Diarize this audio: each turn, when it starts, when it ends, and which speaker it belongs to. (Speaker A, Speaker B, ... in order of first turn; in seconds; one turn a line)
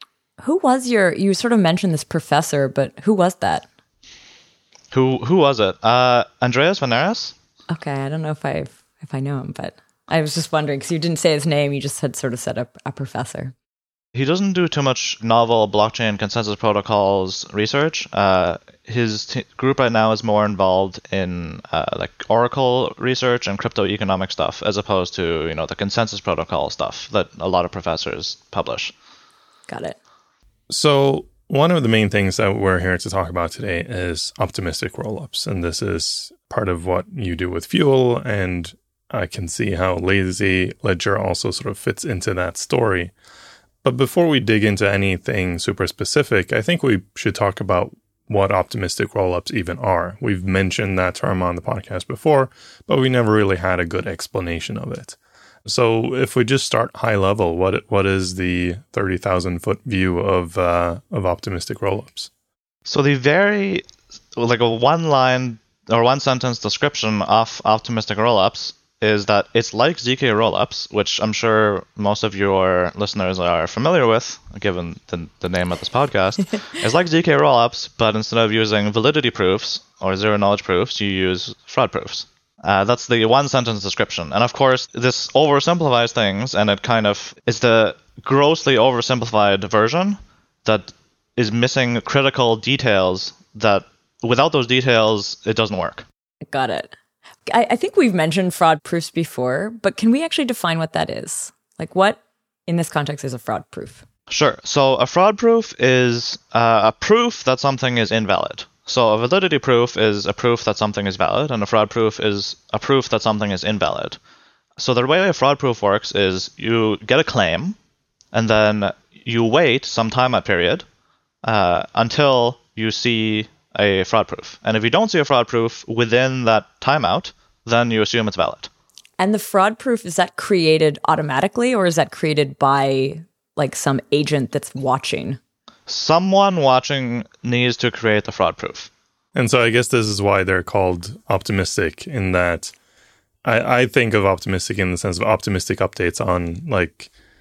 Speaker A: 0.4-3.7
Speaker B: 4.9-7.3
Speaker A: 7.7-13.5
Speaker B: 14.1-28.9
Speaker A: 29.7-30.0
Speaker C: 30.7-43.1
Speaker C: 43.8-62.3
Speaker B: 62.9-63.8
Speaker B: 64.4-96.0
Speaker A: 96.5-96.9
Speaker A: 97.5-104.0
Speaker B: 104.3-114.2
Speaker B: 114.8-117.8
Speaker B: 118.3-120.8
Speaker B: 121.4-128.7
Speaker A: 129.2-135.4
Speaker B: 135.9-138.9
Speaker C: 139.3-142.7
Speaker C: 143.4-147.1